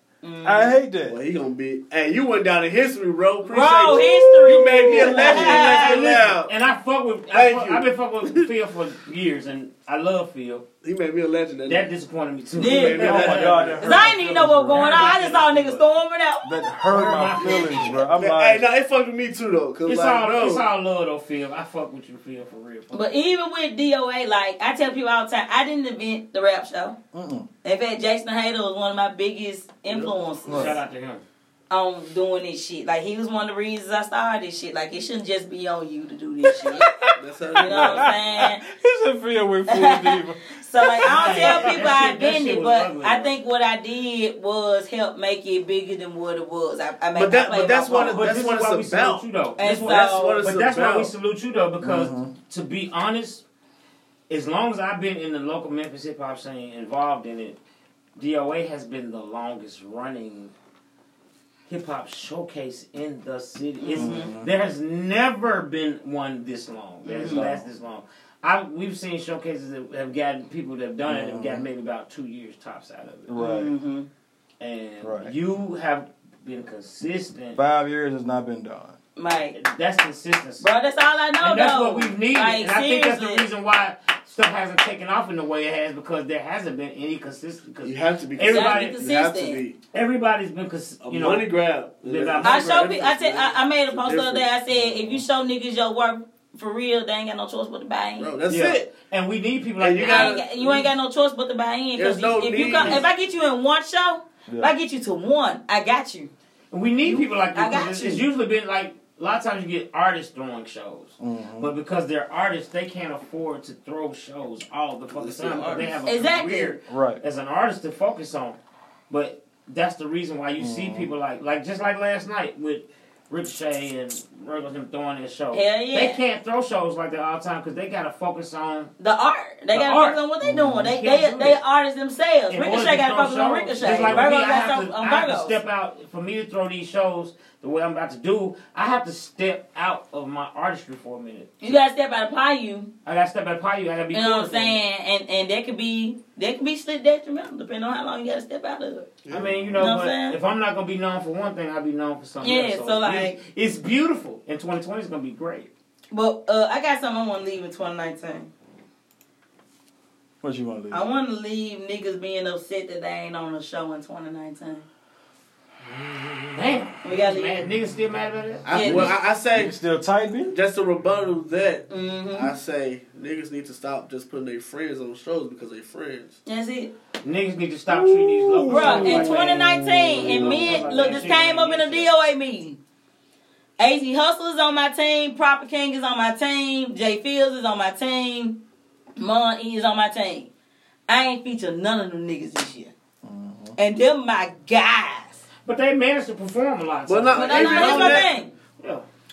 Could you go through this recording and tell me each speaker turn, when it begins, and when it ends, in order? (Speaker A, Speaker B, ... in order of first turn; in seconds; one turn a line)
Speaker A: 0.2-0.8
Speaker B: 0.4-1.2
Speaker C: 1.1-6.5
Speaker A: 3.5-6.1
Speaker D: 4.9-10.6
Speaker C: 7.3-8.5
Speaker C: 10.8-11.9
Speaker D: 11.7-14.1
Speaker C: 12.6-14.1
Speaker A: 12.6-16.5
Speaker B: 13.0-15.1
Speaker D: 14.7-15.8
Speaker B: 16.4-18.6
Speaker D: 16.9-18.0
Speaker C: 17.3-20.6
Speaker D: 19.8-23.1
Speaker A: 22.9-27.0
Speaker B: 27.1-27.5
Speaker A: 27.6-30.8
Speaker C: 29.9-30.1
Speaker B: 30.5-30.7
Speaker D: 30.5-31.2
Speaker A: 31.7-36.9
Speaker B: 36.5-41.5
Speaker C: 37.2-38.1
Speaker A: 37.6-38.6
Speaker A: 39.7-48.2
Speaker D: 41.0-43.3
Speaker C: 41.3-41.7
Speaker C: 47.1-51.1
Speaker D: 47.9-53.4
Speaker A: 49.6-50.5
Speaker B: 51.8-52.3
Speaker D: 54.3-57.6
Speaker D: 58.1-60.5
Speaker D: 61.7-73.3
Speaker A: 63.8-64.3
Speaker B: 63.9-64.5
Speaker A: 67.2-67.4
Speaker B: 67.2-67.7
Speaker B: 71.1-71.7
Speaker B: 73.3-73.7
Speaker A: 73.4-74.1
Speaker D: 74.6-77.6
Speaker B: 75.0-75.3
Speaker B: 77.5-79.0
Speaker A: 79.2-79.6
Speaker D: 79.5-80.7
Speaker A: 80.6-83.5
Speaker D: 81.4-89.0
Speaker C: 87.8-89.8
Speaker A: 88.5-89.6
Speaker D: 89.9-91.5
Speaker C: 91.0-94.5
Speaker D: 92.0-92.9
Speaker A: 92.4-98.3
Speaker B: 94.7-95.2
Speaker C: 98.2-98.9
Speaker D: 98.5-100.4
Speaker C: 99.8-100.9
Speaker A: 100.0-106.3
Speaker C: 101.9-103.0
Speaker D: 102.5-103.0
Speaker D: 106.7-118.6
Speaker A: 107.1-108.2
Speaker B: 111.2-111.7
Speaker C: 115.1-116.1
Speaker A: 116.0-116.8
Speaker B: 116.9-117.2
Speaker D: 119.1-128.9
Speaker B: 120.6-121.1
Speaker A: 125.5-126.2
Speaker A: 129.0-135.6
Speaker D: 129.7-130.2
Speaker B: 130.4-130.9
Speaker D: 130.7-131.6
Speaker D: 132.5-141.7
Speaker B: 133.8-134.3
Speaker A: 141.6-142.9
Speaker D: 143.0-144.8
Speaker A: 144.1-149.1
Speaker C: 149.2-149.5
Speaker D: 149.3-155.7
Speaker B: 149.3-149.8
Speaker A: 149.8-150.4
Speaker A: 152.4-153.4
Speaker A: 156.1-158.5
Speaker B: 160.4-161.0
Speaker A: 160.9-164.8
Speaker D: 166.5-169.1
Speaker A: 167.0-167.6
Speaker C: 168.7-169.7
Speaker A: 168.7-169.1
Speaker B: 168.8-170.5
Speaker C: 170.4-176.3
Speaker A: 171.9-172.5
Speaker A: 176.4-176.9
Speaker D: 177.2-182.1
Speaker B: 177.9-180.9
Speaker A: 178.7-182.8
Speaker A: 183.8-188.6
Speaker A: 189.2-190.5
Speaker A: 191.1-192.9
Speaker B: 193.2-193.8
Speaker A: 193.8-195.4
Speaker D: 195.6-199.1
Speaker C: 197.1-198.3
Speaker A: 197.3-198.5